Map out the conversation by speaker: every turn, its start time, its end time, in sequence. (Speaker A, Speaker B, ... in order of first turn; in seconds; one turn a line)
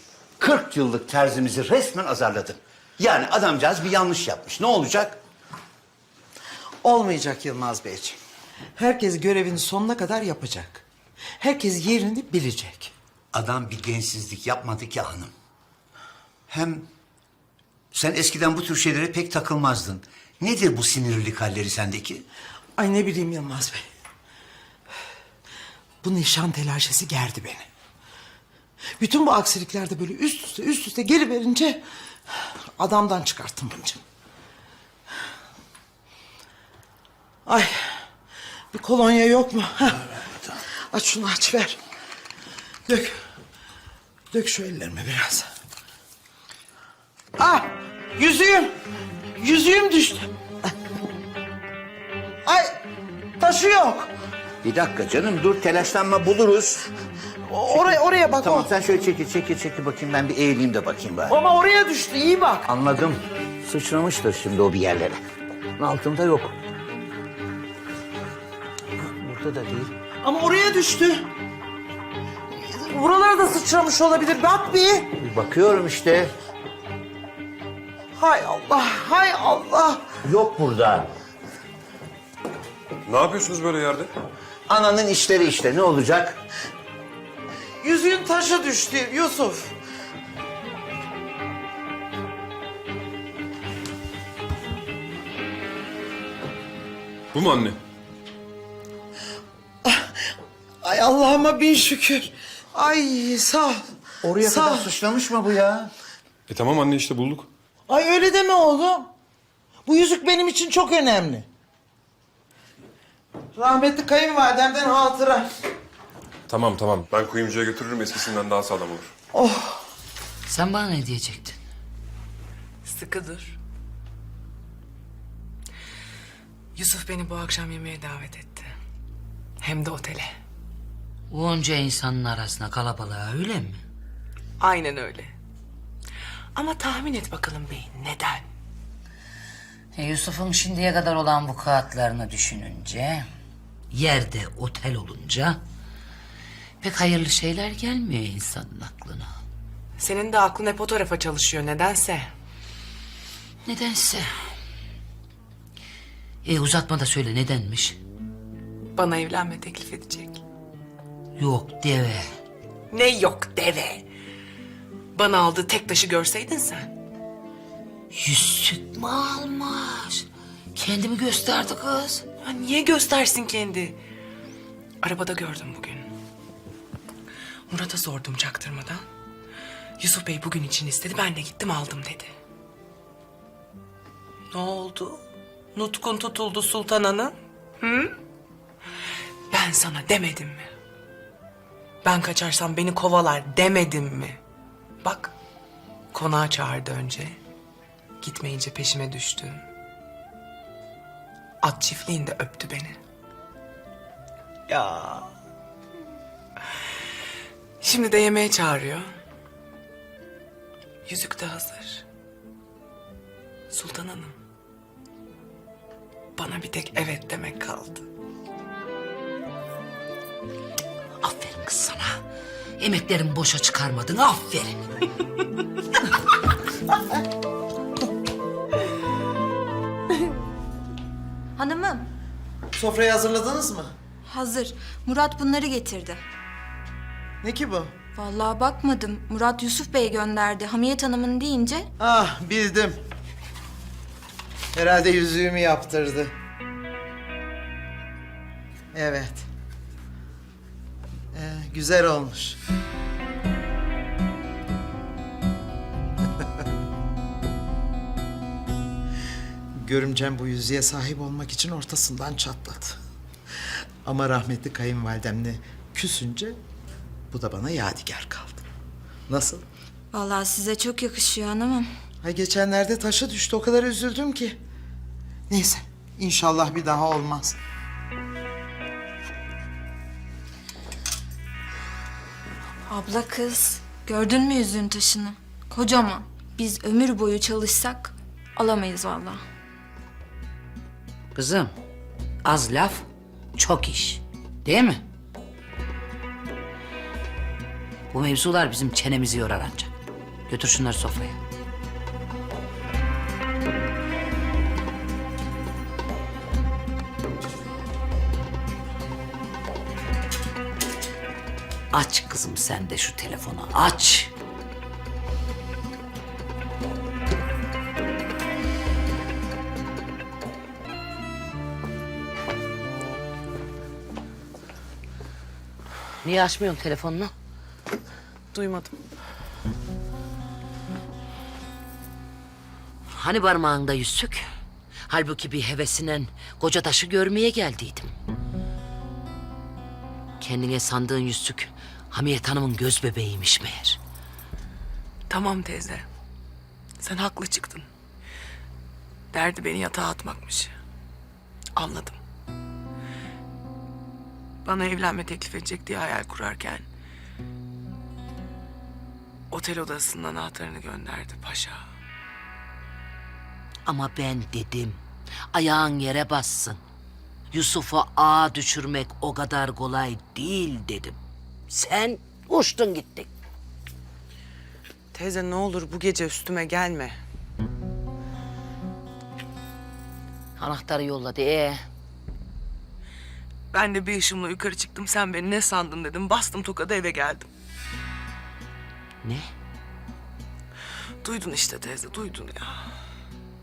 Speaker A: 0.4-5.2
Speaker B: 6.8-8.2
Speaker B: 8.8-10.8
Speaker B: 11.4-12.9
Speaker A: 13.3-15.3
Speaker A: 16.5-16.9
Speaker A: 17.9-22.2
Speaker B: 22.8-23.8
Speaker B: 26.0-27.6
Speaker B: 29.0-31.8
Speaker B: 32.8-34.0
Speaker B: 37.5-37.9
Speaker B: 38.7-40.2
Speaker B: 40.9-41.8
Speaker B: 42.9-43.2
Speaker B: 44.3-45.5
Speaker B: 47.4-48.7
Speaker B: 49.4-50.3
Speaker B: 52.4-52.8
Speaker B: 53.4-54.1
Speaker A: 54.6-56.9
Speaker B: 57.5-58.7
Speaker A: 57.7-61.4
Speaker B: 61.3-62.6
Speaker A: 62.6-65.2
Speaker A: 65.8-66.5
Speaker A: 69.0-69.9
Speaker B: 70.2-71.3
Speaker B: 72.5-75.1
Speaker A: 75.2-76.3
Speaker B: 78.2-80.1
Speaker A: 80.2-81.1
Speaker C: 83.1-84.1
Speaker A: 84.7-86.4
Speaker B: 87.8-89.7
Speaker C: 97.3-97.8
Speaker B: 99.8-100.1
Speaker B: 100.8-103.8
Speaker A: 104.2-105.9
Speaker B: 104.4-104.9
Speaker C: 106.5-107.5
Speaker B: 107.9-109.1
Speaker B: 109.8-111.5
Speaker B: 113.5-115.5
Speaker C: 116.5-119.1
Speaker B: 119.3-119.8
Speaker D: 120.5-121.6
Speaker E: 122.8-123.5
Speaker E: 126.7-128.7
Speaker E: 129.6-130.3
Speaker D: 131.3-133.8
Speaker E: 134.6-135.3
Speaker E: 136.5-138.4
Speaker D: 139.9-143.3
Speaker D: 143.9-145.6
Speaker D: 146.8-149.3
Speaker E: 150.0-152.3
Speaker D: 153.6-154.3
Speaker D: 156.4-158.0
Speaker E: 158.9-160.4
Speaker D: 161.4-162.2
Speaker E: 162.9-164.1
Speaker E: 165.1-166.9
Speaker D: 168.1-172.2
Speaker E: 172.4-174.0
Speaker E: 175.0-176.1
Speaker E: 177.7-179.1
Speaker E: 180.0-182.3
Speaker E: 184.5-185.2
Speaker E: 185.7-188.2
Speaker E: 189.5-190.7
Speaker E: 192.0-194.4
Speaker E: 195.0-195.3
Speaker E: 196.1-197.4
Speaker E: 198.2-199.6
Speaker E: 201.6-203.0
Speaker E: 204.7-205.3
Speaker E: 207.8-209.1
Speaker E: 211.1-212.0
Speaker E: 213.7-214.3
Speaker E: 216.3-218.0
Speaker D: 221.2-222.2
Speaker D: 222.8-224.8
Speaker F: 231.6-232.1
Speaker B: 232.7-233.9
Speaker F: 234.2-236.2
Speaker B: 237.4-237.9
Speaker F: 238.1-241.9
Speaker B: 242.0-243.0
Speaker B: 244.7-246.3
Speaker B: 248.9-249.4
Speaker B: 251.3-252.6
Speaker B: 259.8-263.0
Speaker B: 264.0-266.6
Speaker B: 267.3-268.6
Speaker B: 269.3-269.6
Speaker F: 270.1-271.9
Speaker B: 272.2-274.6
Speaker B: 275.5-277.6
Speaker F: 282.9-289.4
Speaker D: 291.3-291.7
Speaker D: 292.4-295.0
Speaker D: 298.1-299.9
Speaker D: 300.5-301.4
Speaker D: 311.9-314.3
Speaker D: 326.2-327.3
Speaker E: 328.5-328.9
Speaker D: 333.1-334.5
Speaker D: 335.1-338.1
Speaker D: 340.4-344.0
Speaker E: 345.3-346.1
Speaker E: 347.0-347.9
Speaker E: 349.3-350.7
Speaker E: 351.7-352.2
Speaker E: 354.6-356.9
Speaker E: 359.5-361.8
Speaker D: 363.9-365.0
Speaker D: 365.5-366.8
Speaker D: 367.5-371.2
Speaker D: 371.7-373.3
Speaker E: 375.1-377.2
Speaker D: 380.6-381.9
Speaker E: 383.7-387.5
Speaker D: 389.2-389.5
Speaker E: 391.2-392.9